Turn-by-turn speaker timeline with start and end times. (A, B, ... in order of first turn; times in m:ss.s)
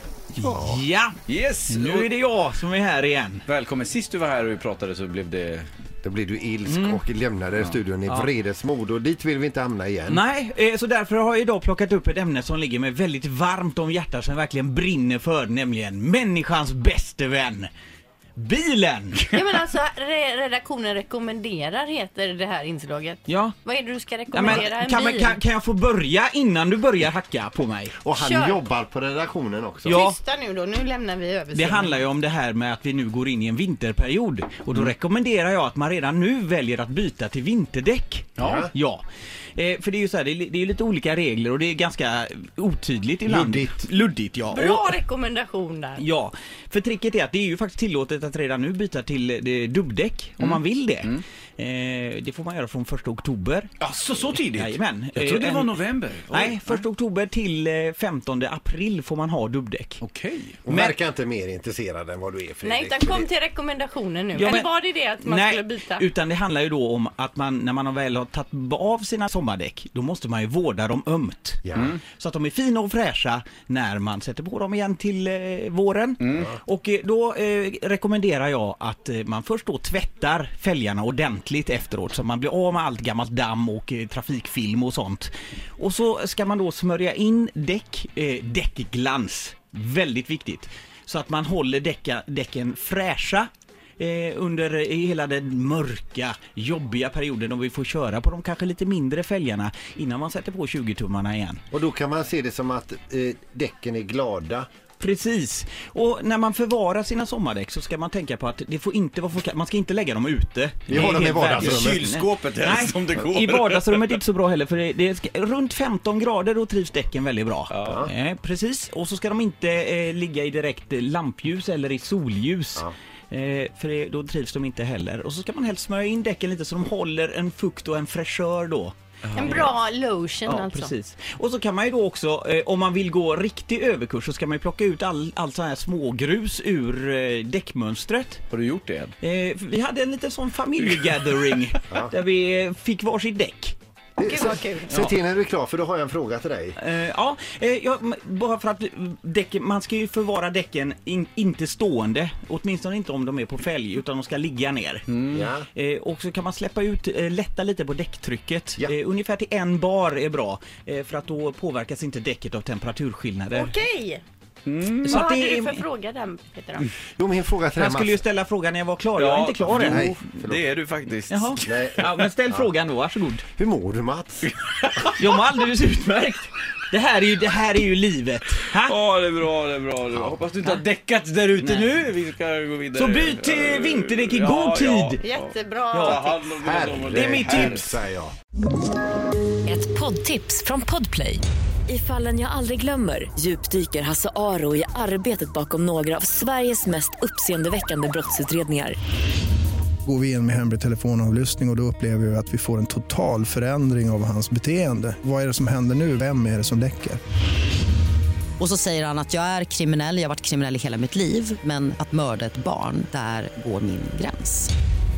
0:00.4-0:01.2 A
0:00.4-0:00.8 B
0:01.3-0:02.1 C
0:01.7-0:03.4 A
0:03.5-0:05.7 C
0:06.0-0:10.2 B
0:06.7-0:07.0 A
0:10.1-0:17.7 A
0:18.4-0:19.4 A
0:19.3-0:25.4 D
0:23.3-0:23.6 A
0:24.3-0:27.9 A
0:28.0-0:30.0 B
0:28.2-0:28.6 D
0:29.8-0:30.2 A
0:29.9-0:32.0 D
0:31.5-0:39.0 A
0:38.4-0:38.7 B
0:39.6-0:44.9 A
0:43.3-0:43.9 B
0:44.5-0:46.0 D
0:46.0-0:53.7 A
0:50.4-0:51.2 C
0:53.8-0:56.8 C
0:54.5-1:00.0 A
1:00.0-1:00.6 C
1:00.6-1:03.3 B
1:00.7-1:00.9 A
1:02.6-1:06.0 D
1:04.3-1:41.6 A
1:11.6-1:12.0 B
1:16.2-1:16.5 C
1:41.7-1:44.7 B
1:45.0-2:09.7 A
1:50.9-1:52.1 B
1:50.9-1:54.2 C
1:57.7-1:58.0 C
2:09.3-2:09.6 C
2:09.3-2:10.9 D
2:10.4-2:18.4 A
2:18.5-2:19.1 C
2:19.2-2:23.8 A
2:24.2-2:26.8 B
2:24.2-2:25.1 D
2:26.8-2:35.0 A
2:35.1-2:35.4 C
2:35.3-2:35.6 B
2:35.7-2:43.7 A
2:43.5-2:44.2 D
2:44.6-2:45.2 C
2:45.0-2:45.8 A
2:45.1-2:46.9 D
2:47.2-2:48.2 B
2:47.8-2:50.1 A
2:49.2-2:51.8 C
2:49.7-2:50.6 B
2:51.3-2:53.4 A
2:51.6-2:52.7 B
2:53.6-2:54.4 B
2:55.2-2:59.0 A
2:58.8-3:07.8 C
3:00.1-3:00.4 B
3:01.6-3:02.0 A
3:02.9-3:05.2 A
3:05.2-3:06.5 D
3:05.9-3:06.2 A
3:06.6-3:08.3 B
3:07.1-3:07.9 A
3:09.6-3:19.0 E
3:20.0-3:27.2 F
3:28.6-3:34.7 G